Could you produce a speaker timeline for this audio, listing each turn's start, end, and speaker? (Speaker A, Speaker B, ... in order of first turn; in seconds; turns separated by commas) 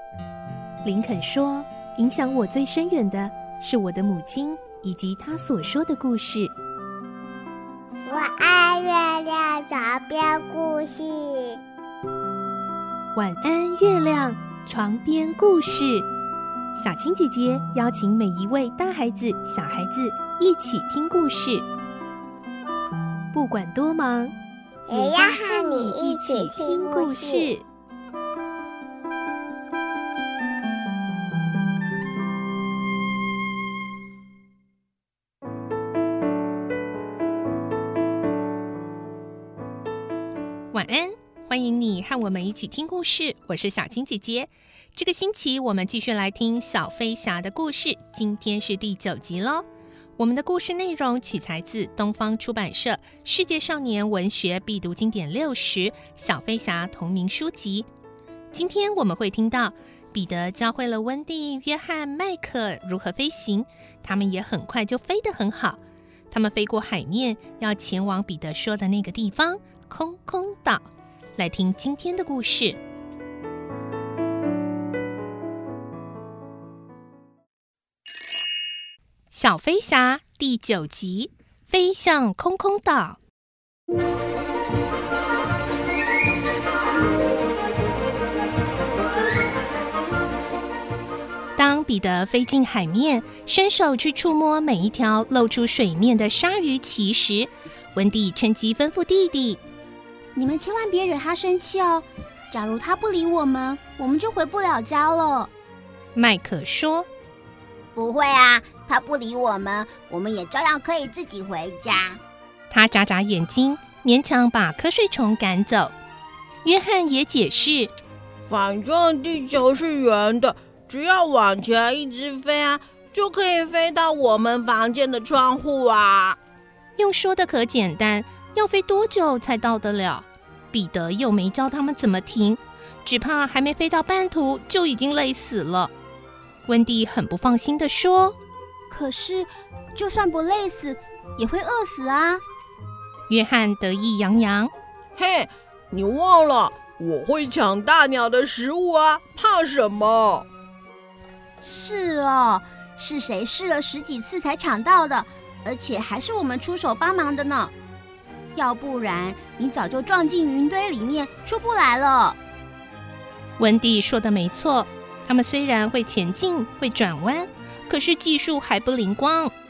Speaker A: 0.8-6.5, Speaker B: 8.1-11.6, Speaker A: 13.1-16.1, Speaker A: 16.7-21.6, Speaker A: 23.3-24.3, Speaker B: 24.9-27.5, Speaker A: 24.9-27.6, Speaker A: 40.7-49.6, Speaker A: 50.2-57.9, Speaker A: 58.5-72.8, Speaker A: 79.3-83.2, Speaker A: 91.5-99.6, Speaker C: 100.3-105.5, Speaker A: 106.1-107.1, Speaker C: 108.0-112.2, Speaker A: 112.7-115.9, Speaker A: 116.6-117.9, Speaker D: 118.5-126.4, Speaker A: 127.0-135.9, Speaker A: 136.6-138.3, Speaker C: 138.9-142.4, Speaker A: 143.3-144.7, Speaker D: 145.2-150.5, Speaker C: 151.6-157.7, Speaker C: 158.5-162.4, Speaker A: 163.6-169.5